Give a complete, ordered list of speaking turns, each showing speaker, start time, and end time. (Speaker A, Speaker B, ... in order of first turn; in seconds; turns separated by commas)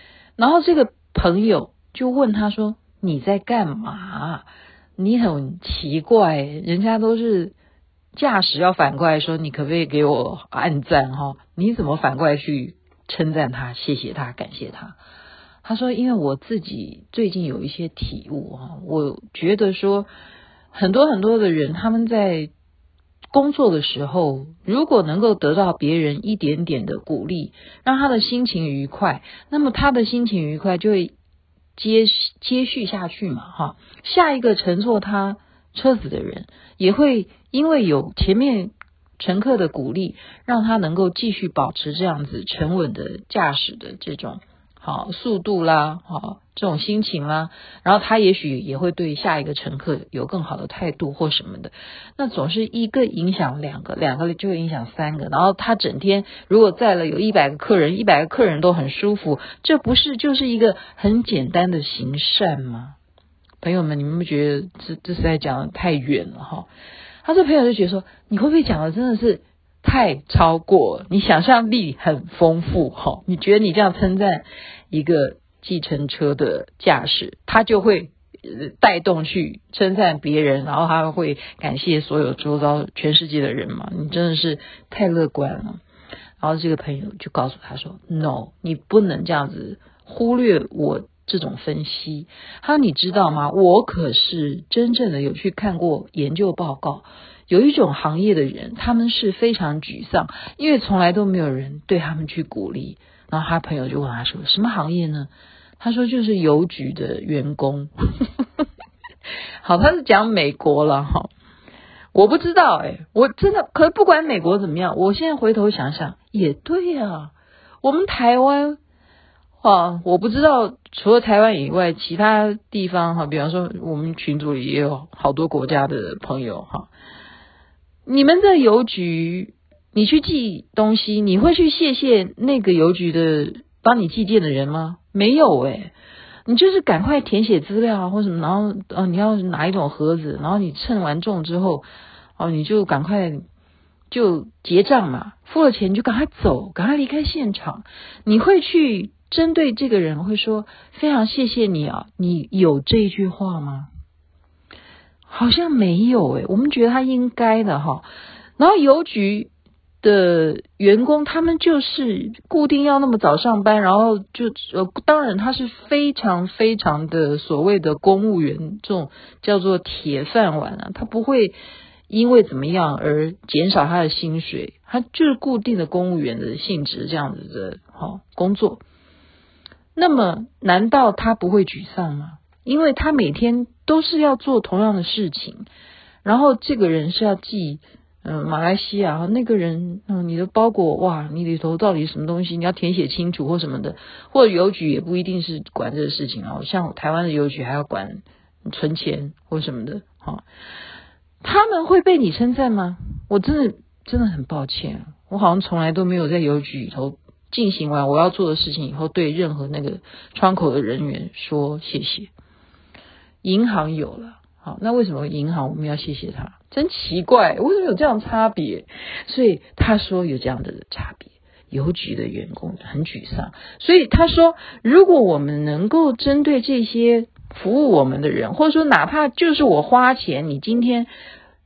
Speaker A: 0.4-4.5, Speaker A: 5.0-7.5, Speaker A: 8.1-15.0, Speaker A: 15.6-20.1, Speaker A: 20.7-22.5, Speaker A: 23.3-31.1, Speaker A: 31.8-63.0, Speaker A: 63.6-66.7, Speaker A: 67.2-85.8, Speaker A: 86.4-108.4, Speaker A: 109.6-111.3, Speaker A: 112.1-118.8, Speaker A: 119.6-126.9, Speaker A: 128.1-135.9, Speaker A: 136.5-141.8, Speaker A: 142.4-143.4, Speaker A: 144.1-153.9, Speaker A: 155.3-158.0, Speaker A: 158.6-159.5, Speaker A: 160.0-171.5, Speaker A: 172.1-178.8, Speaker A: 179.9-185.7, Speaker A: 186.2-200.4, Speaker A: 201.4-212.3, Speaker A: 213.4-231.1